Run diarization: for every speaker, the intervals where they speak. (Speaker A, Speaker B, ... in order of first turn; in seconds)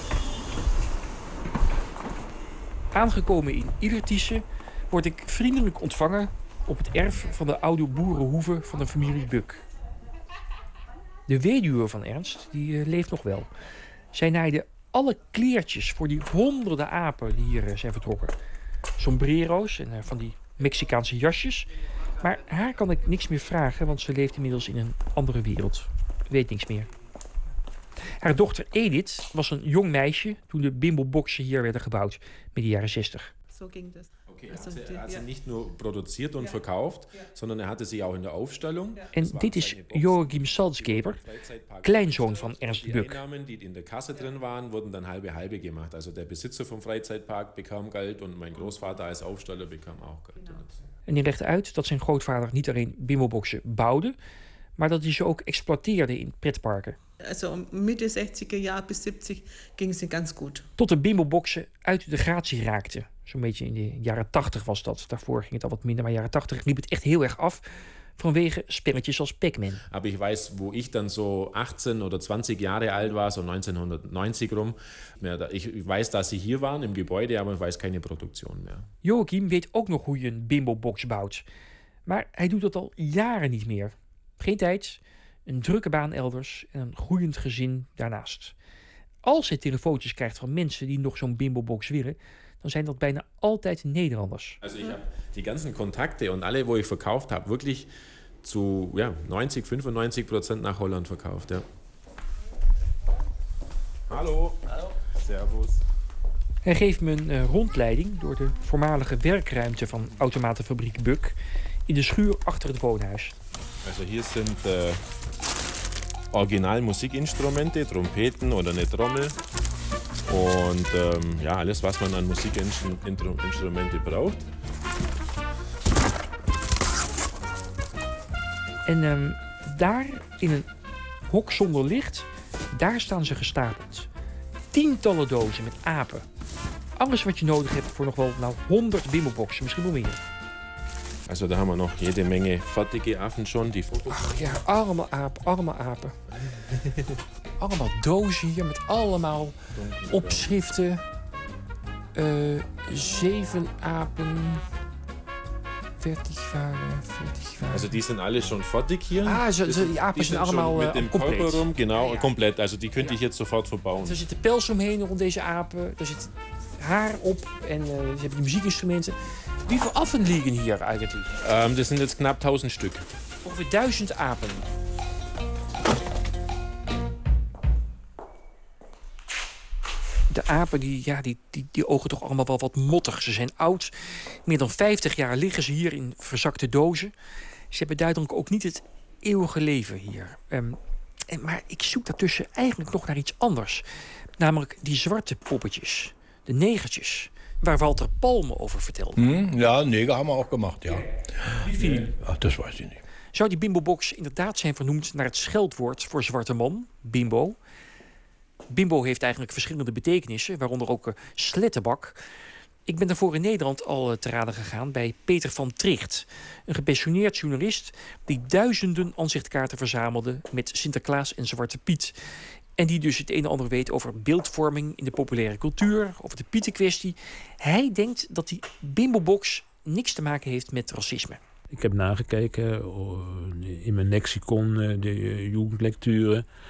Speaker A: 2.9-9.6, 11.3-13.5, 14.1-18.3, 19.0-21.7, 22.2-26.9, 28.2-33.3, 39.1-41.2, 41.8-43.2, 51.1-54.1, 54.8-57.0, 60.8-67.6, 68.2-69.8, 79.0-81.4, 82.0-88.5, 89.2-94.6, 106.6-111.3, 111.9-113.3, 128.8-130.7, 131.3-134.1, 134.7-136.2, 137.0-140.2, 144.1-146.1, 147.6-149.6, 150.1-151.0, 152.1-154.6, 156.0-158.0, 159.2-162.4, 164.0-171.3, 173.4-174.7, 180.3-183.9, 184.4-187.1, 187.7-193.8, 194.4-199.2, 200.9-202.1, 203.3-207.6, 208.7-212.2, 212.8-222.1, 222.8-231.4
Speaker B: 33.5-35.3, 36.4-37.3, 48.5-49.0, 50.4-50.6, 57.2-60.7
Speaker C: 34.3-50.7, 69.9-78.9, 94.6-97.9, 98.4-101.6, 104.1-105.8, 113.8-115.0, 116.3-119.4, 120.3-124.5, 141.3-144.6, 149.7-150.5, 157.7-164.2, 171.4-173.1
Speaker D: 199.2-203.0
Speaker E: 231.7-236.4